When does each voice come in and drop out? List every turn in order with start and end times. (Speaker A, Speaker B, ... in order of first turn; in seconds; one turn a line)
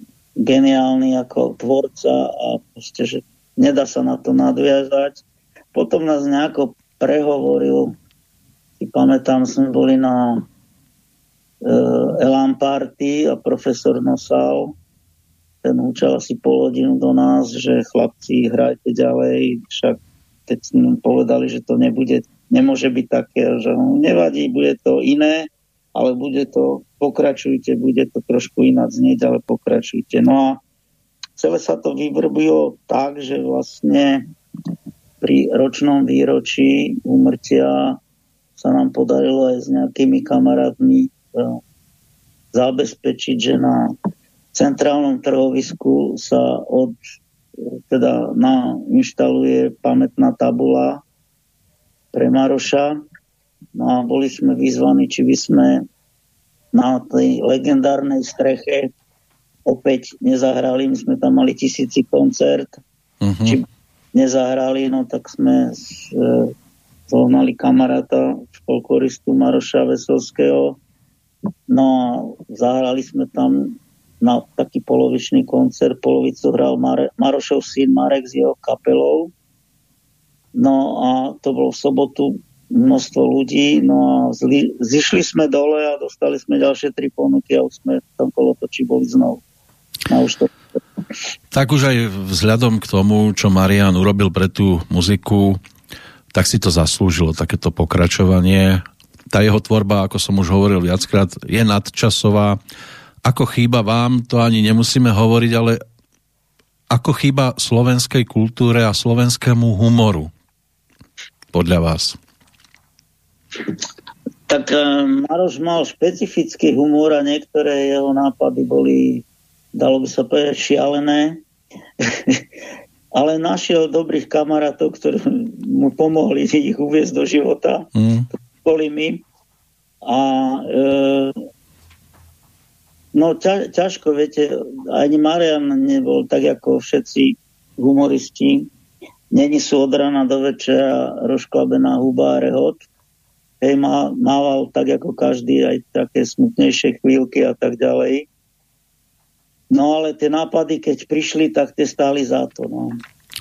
Speaker A: 0.4-5.2
Speaker A: 5.7-8.0
Speaker A: 8.8-10.4
Speaker A: 11.6-14.8
Speaker A: 15.6-30.6
Speaker A: 31.4-34.2
Speaker A: 35.2-38.0
Speaker A: 38.6-41.6
Speaker A: 42.5-43.9
Speaker A: 44.5-47.0
Speaker A: 47.6-51.0
Speaker A: 52.1-53.0
Speaker A: 53.7-55.9
Speaker A: 56.7-58.9
Speaker A: 59.6-62.8
Speaker B: 63.2-63.6
Speaker A: 63.4-66.5
Speaker A: 67.1-70.8
Speaker A: 71.7-79.3
Speaker A: 80.5-89.4
Speaker A: 90.1-90.5
Speaker B: 91.5-95.6
Speaker B: 96.3-102.6
Speaker B: 103.2-105.8
Speaker B: 106.9-110.3
Speaker B: 111.5-112.2
Speaker A: 114.5-119.2
Speaker A: 119.7-121.4
Speaker A: 122.0-122.4
Speaker A: 123.1-127.9
Speaker B: 128.0-128.2
Speaker A: 128.6-129.2
Speaker A: 130.0-131.4
Speaker A: 133.1-138.7
Speaker A: 139.3-142.8
Speaker A: 143.6-148.3
Speaker A: 149.7-153.0